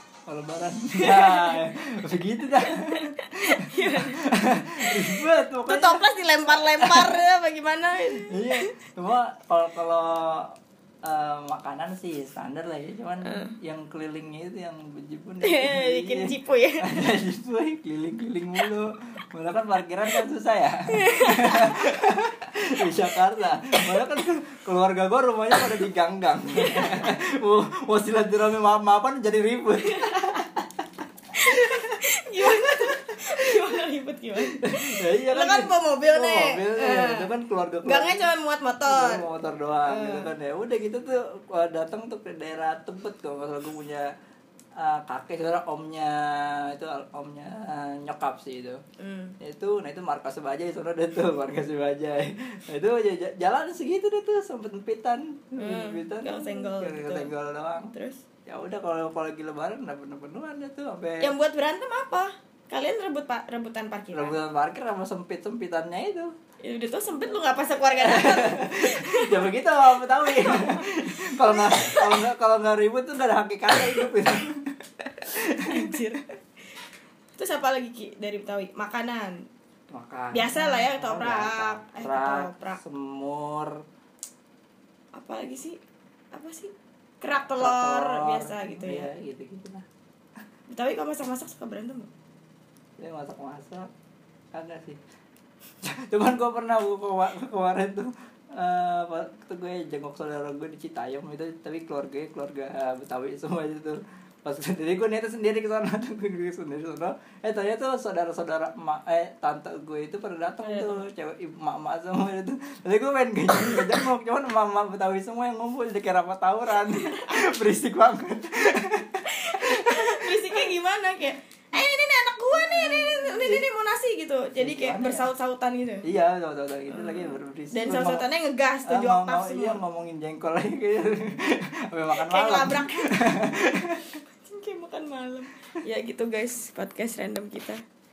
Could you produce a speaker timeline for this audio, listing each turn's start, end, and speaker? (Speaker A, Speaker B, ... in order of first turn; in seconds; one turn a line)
Speaker A: 0.3-7.2
Speaker B: 1.0-1.7
Speaker B: 2.7-4.2
Speaker B: 4.8-8.7
Speaker A: 8.2-10.5
Speaker A: 11.0-30.6
Speaker B: 13.2-13.5
Speaker B: 15.4-17.1
Speaker B: 20.9-21.8
Speaker B: 26.6-26.9
Speaker B: 29.9-30.5
Speaker B: 31.3-39.3
Speaker A: 31.4-33.4
Speaker A: 34.5-38.3
Speaker A: 38.9-44.1
Speaker B: 39.8-40.3
Speaker A: 44.8-48.8
Speaker B: 49.0-49.3
Speaker A: 49.4-57.9
Speaker B: 55.6-58.2
Speaker A: 58.5-61.3
Speaker B: 61.2-64.4
Speaker A: 64.1-66.3
Speaker B: 66.6-69.6
Speaker A: 67.9-75.9
Speaker B: 70.2-70.8
Speaker B: 71.5-72.1
Speaker B: 75.7-76.3
Speaker B: 77.3-79.5
Speaker A: 79.9-83.8
Speaker B: 80.3-82.8
Speaker B: 85.1-85.8
Speaker B: 86.3-89.1
Speaker A: 87.5-89.8
Speaker B: 90.7-92.1
Speaker A: 93.0-93.9
Speaker A: 94.5-95.0
Speaker A: 95.8-120.6
Speaker B: 110.6-111.0
Speaker B: 116.9-117.5
Speaker B: 119.3-126.0
Speaker A: 122.5-123.7
Speaker A: 124.6-125.3
Speaker A: 126.0-128.3
Speaker B: 126.9-129.8
Speaker A: 128.8-134.1
Speaker B: 132.1-133.2
Speaker B: 134.4-137.8